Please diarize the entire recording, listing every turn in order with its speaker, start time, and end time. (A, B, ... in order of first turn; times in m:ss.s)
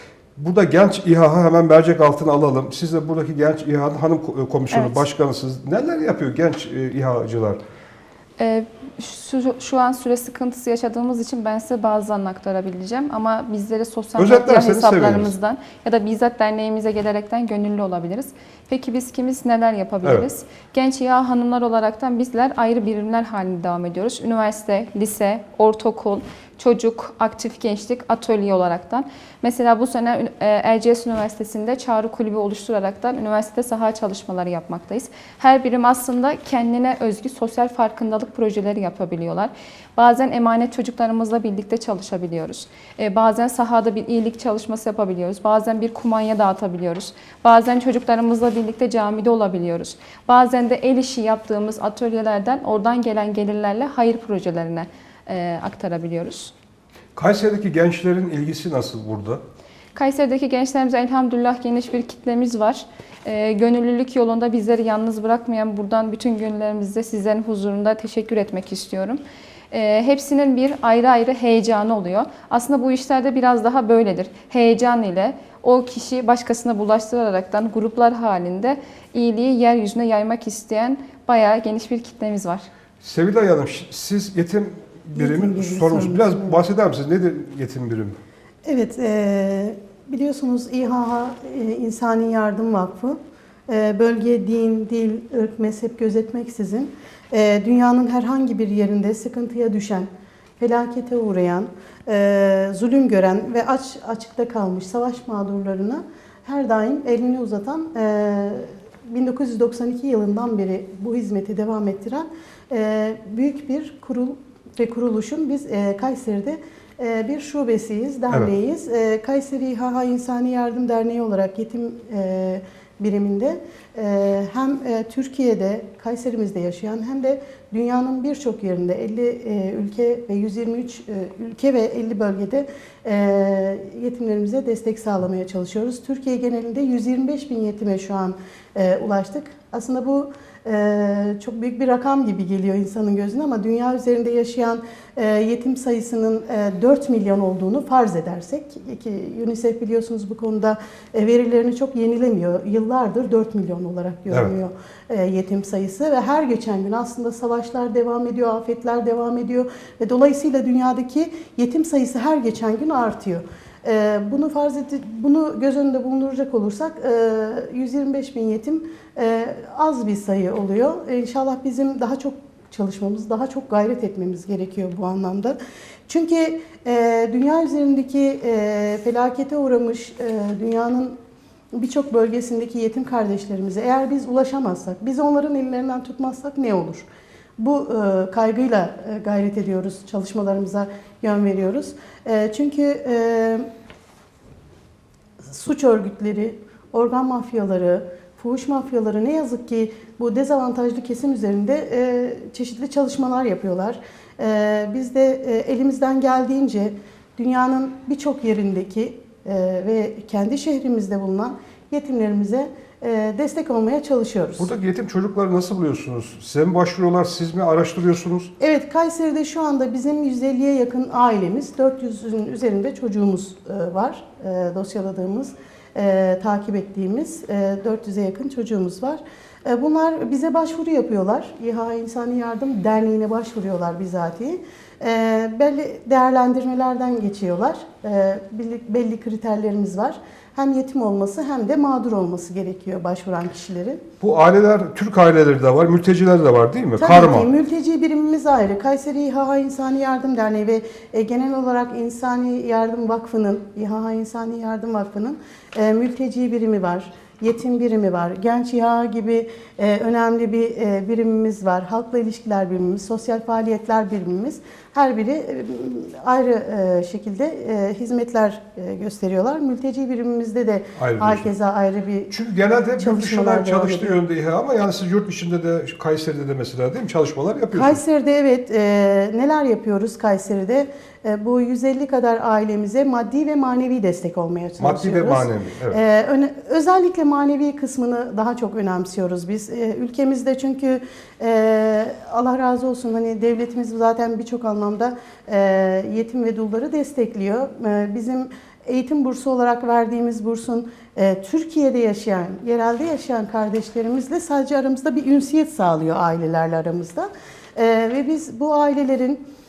0:00.4-0:07.6 A
0:04.7-0:05.0 B
0:08.4-0:56.5 B
0:14.2-0:15.3 A
0:57.2-0:59.4 A
1:00.0-1:22.7 B
1:23.0-1:28.2 A
1:25.2-1:26.6 C
1:28.6-1:33.2 C
1:33.7-2:55.6 C
2:56.1-3:01.2 C
3:01.7-3:07.1 C
3:07.6-3:13.7 C
3:15.5-3:34.7 C
3:34.6-3:38.5 A
3:38.6-4:04.0 C
4:04.2-4:07.5 A
4:07.0-4:32.3 C
4:31.0-4:31.5 A
4:32.3-4:38.0 A
4:33.0-4:34.2 C
4:37.7-5:09.4 C
4:44.8-4:46.0 A